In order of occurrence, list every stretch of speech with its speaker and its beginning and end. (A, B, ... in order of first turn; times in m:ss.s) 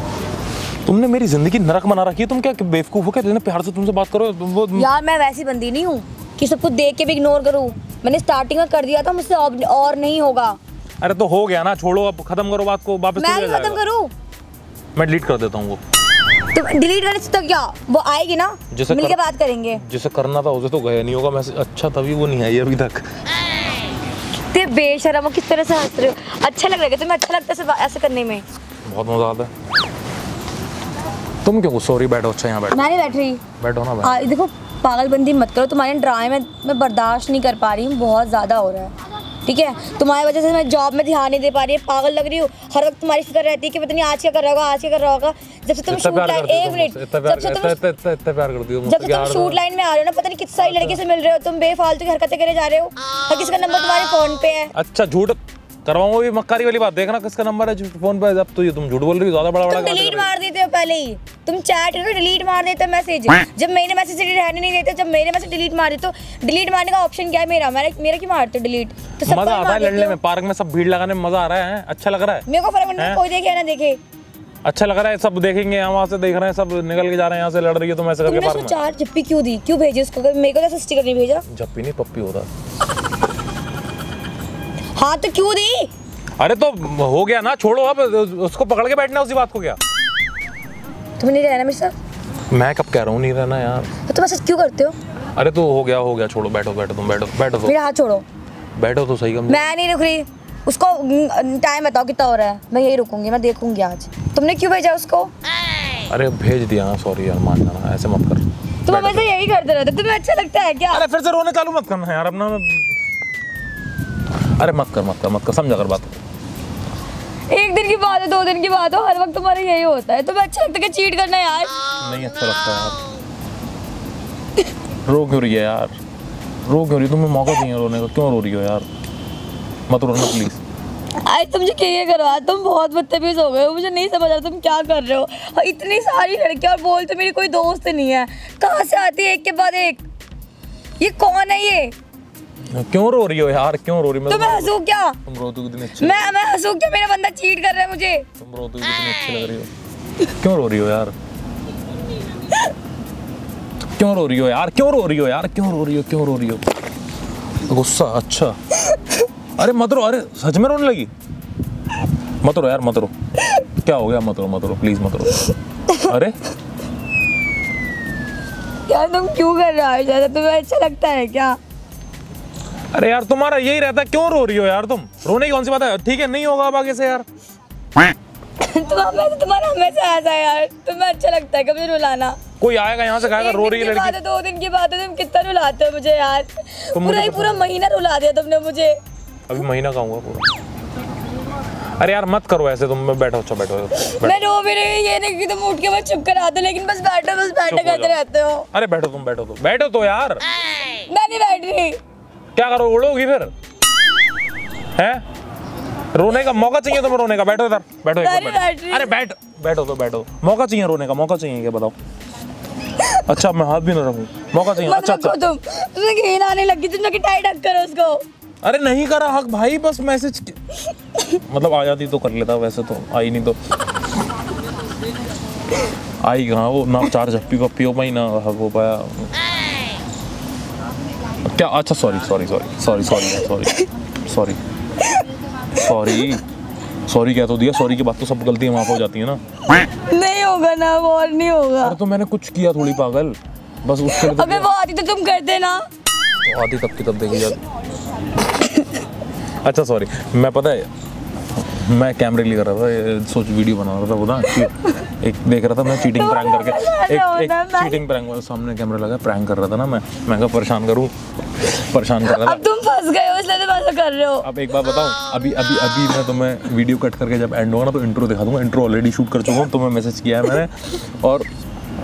0:00.8-0:04.9 A
0:04.7-0:10.6 B
0:11.0-0:13.8 A
0:13.2-0:14.1 B
0:14.9-0:15.8 A
0:16.5-0:19.8 B
0:18.7-0:19.2 A
0:19.7-0:23.1 A
0:24.5-0:28.4 B
0:28.8-0:29.5 A
0:31.4-0:32.9 A
0:32.7-0:33.4 B
0:33.6-0:34.3 A
0:34.0-0:38.9 B
0:39.4-0:47.8 B
0:45.9-0:49.6 A
0:48.8-0:54.7 B
0:50.6-0:51.0 A
0:54.7-1:00.3 A
0:59.6-1:10.2 B
1:09.2-1:12.4 A
1:12.5-1:14.0 B
1:13.0-1:13.2 A
1:14.6-1:18.8 A
1:18.2-1:21.4 B
1:21.5-1:22.5 A
1:25.0-1:25.9 B
1:26.4-1:29.8 A
1:31.2-1:32.0 B
1:32.5-1:33.9 A
1:34.1-1:35.0 B
1:35.4-1:37.7 A
1:37.6-1:38.2 B
1:38.8-1:39.7 A
1:39.5-1:45.3 B
1:46.1-1:49.3 A
1:48.8-1:51.0 B
1:50.9-1:53.0 A
1:54.6-1:56.2 A
1:57.5-2:01.8 B
2:02.0-2:03.0 A
2:05.0-2:05.9 A
2:06.6-2:08.9 A
2:09.9-2:10.6 A
2:11.2-2:20.0 B
2:21.0-2:21.9 B
2:22.7-2:26.4 A
2:24.3-2:25.2 B
2:26.0-2:28.2 B
2:28.4-2:29.7 A
2:30.2-2:31.1 A
2:34.0-2:36.6 A
2:37.6-2:38.6 A
2:39.6-2:41.1 A
2:42.4-2:43.1 A
2:43.8-2:46.4 A
2:48.9-2:51.6 B
2:52.9-2:57.2 A
2:58.6-3:02.4 B
3:02.6-3:04.2 A
3:03.2-3:08.9 B
3:06.9-3:07.7 A
3:09.5-3:10.5 A
3:12.0-3:14.4 A
3:14.0-3:18.7 B
3:17.7-3:18.2 A
3:18.7-3:20.4 A
3:21.1-3:22.0 B
3:22.5-3:23.5 A
3:24.9-3:25.2 A
3:26.1-3:31.9 A
3:28.2-3:29.1 B
3:33.0-3:33.2 B
3:33.2-3:35.4 A
3:34.7-3:38.2 B
3:38.6-3:40.6 A
3:41.5-3:43.6 A
3:46.2-3:49.3 A
3:51.5-3:54.6 A
3:53.2-3:53.9 B
3:55.7-3:56.4 A
3:57.1-3:59.4 A
3:59.6-4:02.0 B
4:01.8-4:04.7 A
4:04.1-4:05.8 B
4:06.4-4:07.6 A
4:08.6-4:08.8 B
4:09.6-4:10.9 A
4:11.6-4:22.6 A
4:14.5-4:14.9 B
4:15.9-4:18.0 B
4:22.3-4:24.5 B
4:24.4-4:31.5 A